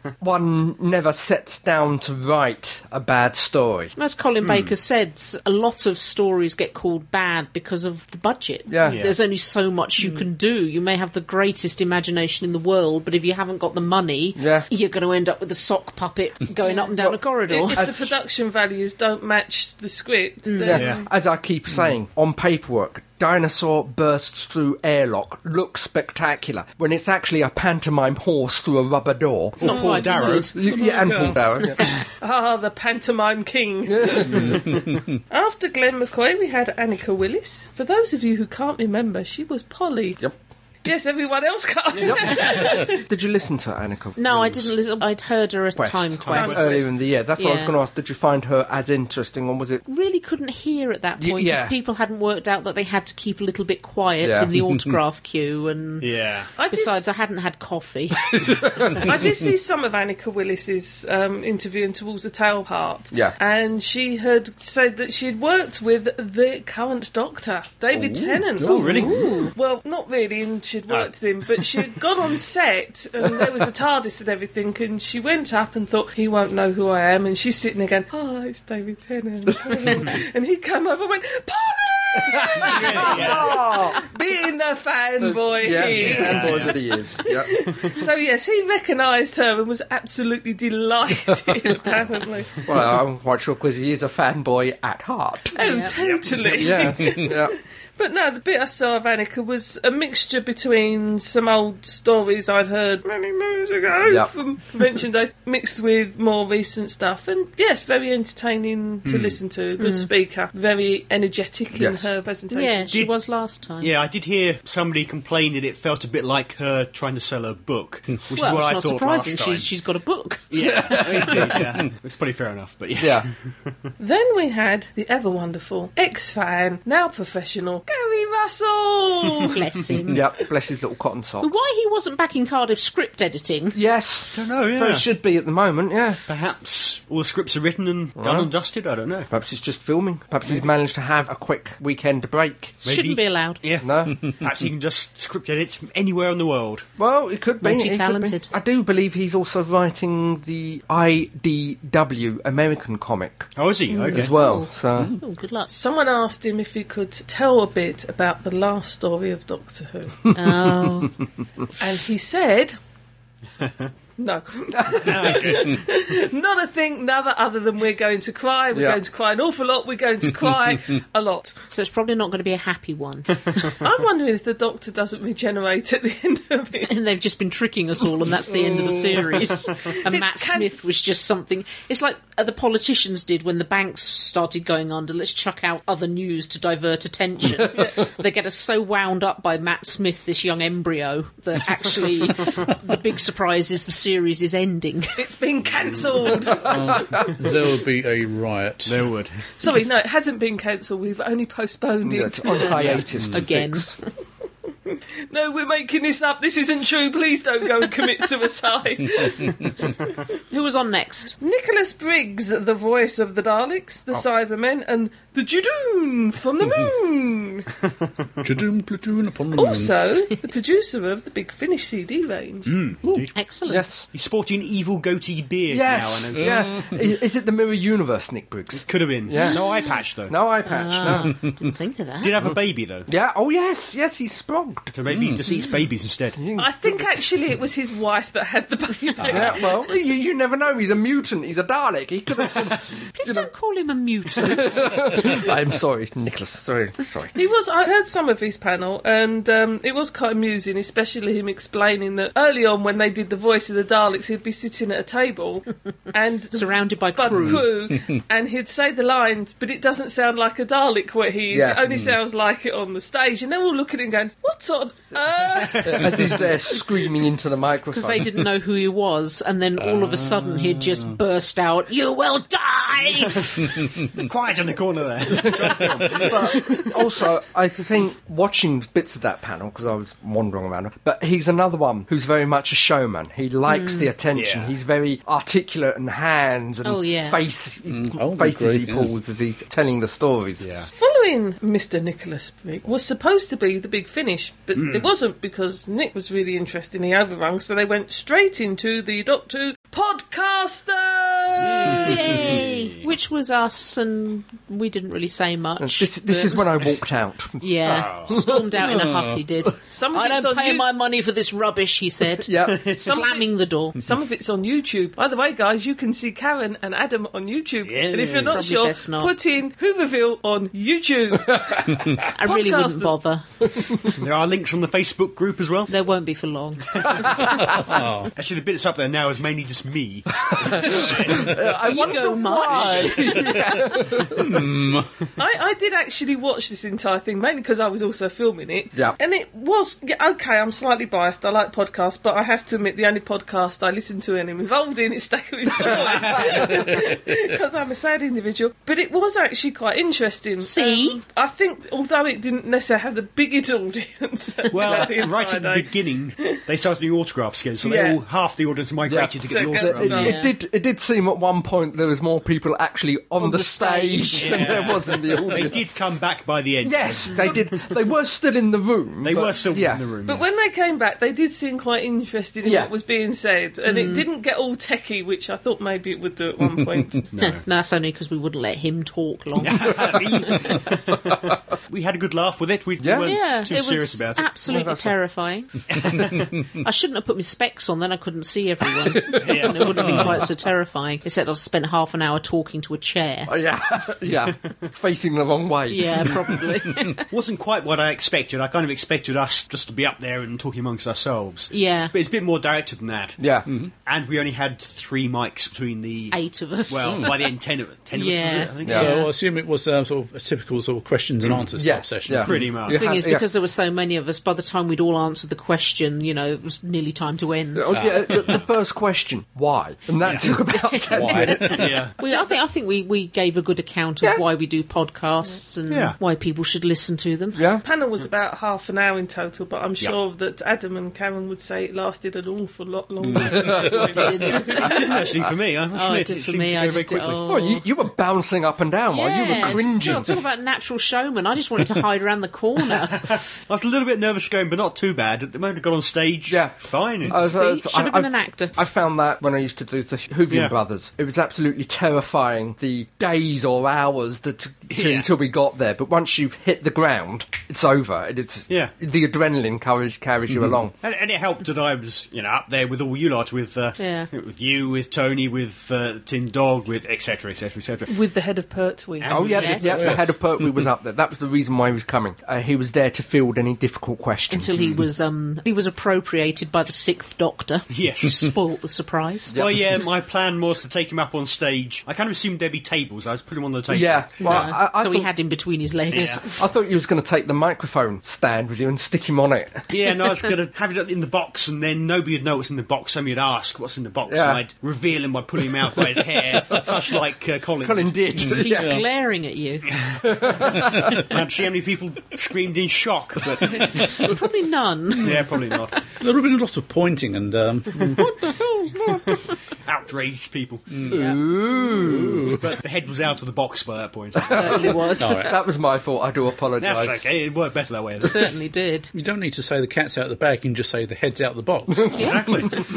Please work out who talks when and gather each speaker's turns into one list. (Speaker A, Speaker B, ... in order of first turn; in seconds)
Speaker A: 0.2-3.9, 8.7-9.0, 14.3-14.7, 17.7-18.1, 20.6-31.8, 33.9-34.6, 42.0-44.7, 45.8-49.8, 51.2-51.7, 54.2-54.5, 58.3-59.1, 68.6-69.3, 82.2-84.0, 85.2-87.5, 92.6-95.6, 96.5-97.5, 104.0-104.3, 111.7-112.1, 120.6-121.6, 123.0-123.3, 130.1-131.6, 133.7-136.2, 138.2-138.5, 139.3-142.8, 143.8-144.2, 147.0-153.5, 154.1-155.2, 160.4-161.1, 168.7-169.0, 187.6-187.9, 202.0-204.0, 223.7-224.1, 225.7-229.7, 230.3-231.3, 233.1-234.9, 236.3-237.1, 239.2-243.5, 244.3-247.3, 261.5-261.8, 265.8-268.3, 275.4-290.7, 305.8-308.6, 312.4-312.9, 321.5-321.8, 330.4-334.6, 359.1-366.0, 366.8-370.1, 372.6-372.9, 383.0-383.3, 384.6-385.1, 389.1-390.1, 393.5-396.6, 403.4-403.6, 411.8-413.4, 417.7-422.0, 427.5-427.8, 433.4-434.2, 437.5-440.4, 446.5-460.9, 469.3-474.9, 479.5-479.8, 483.9-485.3, 486.1-489.9, 494.3-494.6, 496.5-496.9, 497.8-499.0, 500.2-501.2, 511.1-512.5, 514.4-517.2
Speaker B: 4.0-17.9, 20.4-20.8, 29.6-30.6, 44.1-47.8, 49.9-56.1, 56.7-58.4, 68.8-69.5, 95.5-95.9, 109.8-110.1, 112.5-113.9, 118.3-121.4, 129.5-130.2, 131.4-133.8, 142.8-143.6, 147.6-148.5, 154.0-155.7, 160.3-161.1, 171.7-173.7, 176.8-195.2, 203.2-203.9, 210.5-211.4, 223.3-223.9, 229.4-229.9, 230.6-232.3, 243.1-245.2, 256.5-257.6, 267.9-273.7, 283.7-284.1, 286.8-287.4, 301.9-306.6, 307.6-314.0, 318.4-319.3, 322.3-323.4, 325.9-327.6, 331.8-333.9, 350.6-351.2, 360.0-360.5, 363.4-364.7, 373.9-374.2, 377.4-380.1, 383.2-385.7, 386.8-393.5, 395.9-397.2, 401.7-402.1, 406.3-407.4, 408.1-409.3, 412.9-418.1, 420.7-427.7, 433.9-435.2, 435.9-437.8, 439.1-443.2, 447.3-448.8, 464.0-464.3, 469.5-470.0, 474.5-479.6, 484.4-486.6, 498.5-499.9, 504.1-505.4, 511.1-511.4, 514.4-515.5, 518.2-519.1, 522.1-522.5
Speaker C: 4.4-4.7, 8.8-9.2, 20.7-21.0, 29.6-30.5, 46.2-46.9, 56.0-56.5, 67.9-69.1, 70.9-71.6, 82.6-83.6, 85.9-86.8, 96.0-97.0, 109.0-109.4, 113.8-119.7, 120.5-123.7, 134.3-135.1, 136.3-139.3, 142.8-146.9, 153.6-154.3, 163.6-163.9, 165.0-165.8, 195.7-196.2, 198.8-199.4, 222.7-223.3, 224.1-226.6, 228.7-230.3, 232.2-233.1, 234.9-236.4, 265.7-266.1, 273.3-273.6, 274.1-276.9, 284.3-284.7, 290.6-290.9, 294.7-295.1, 301.6-303.1, 307.9-308.3, 312.7-313.1, 317.8-318.6, 324.1-325.9, 328.4-331.6, 332.7-333.1, 345.8-347.0, 354.7-360.3, 364.4-367.8, 369.2-370.4, 377.3-377.6, 379.6-384.5, 385.9-386.5, 389.4-390.3, 397.3-403.4, 404.1-409.1, 412.4-413.0, 421.7-422.1, 425.9-426.1, 434.8-437.4, 443.1-447.4, 450.5-450.7, 454.9-455.3, 461.0-468.1, 469.2-470.3, 477.9-478.4, 479.6-484.7, 486.1-486.4, 489.9-498.1, 499.9-500.2, 501.2-504.3, 505.2-506.0, 509.3-511.0, 512.4-514.9, 516.8-518.5, 522.1-522.8
Speaker D: 17.5-21.1, 32.2-40.2, 40.8-43.0, 46.3-46.8, 56.6-57.0, 58.9-92.6, 95.5-112.9, 124.0-129.6, 155.7-160.2, 161.8-162.8, 164.2-171.6, 173.8-176.9, 179.8-180.9, 195.2-197.3, 199.6-203.0, 204.9-210.2, 211.4-217.7, 219.5-222.7, 236.6-239.8, 247.3-266.4, 290.9-302.4, 309.9-310.9, 313.0-323.2, 335.4-355.9, 357.8-358.2, 359.4-360.4, 370.2-377.3, 422.2-422.6, 427.8-435.2, 468.1-469.4
Speaker E: 30.6-31.4, 34.4-35.2, 54.6-55.0, 196.6-199.0, 202.8-203.4, 218.4-219.9, 226.3-227.0, 235.1-235.4, 257.3-258.2, 269.8-271.1, 287.9-289.1, 308.8-309.4, 327.4-328.3, 334.2-335.1, 390.0-390.5, 403.7-403.9, 408.9-412.8, 421.1-421.8, 433.3-433.8, 469.8-470.8, 498.4-499.1, 506.2-508.5, 510.9-511.2, 511.9-512.7, 515.2-515.5, 519.1-522.2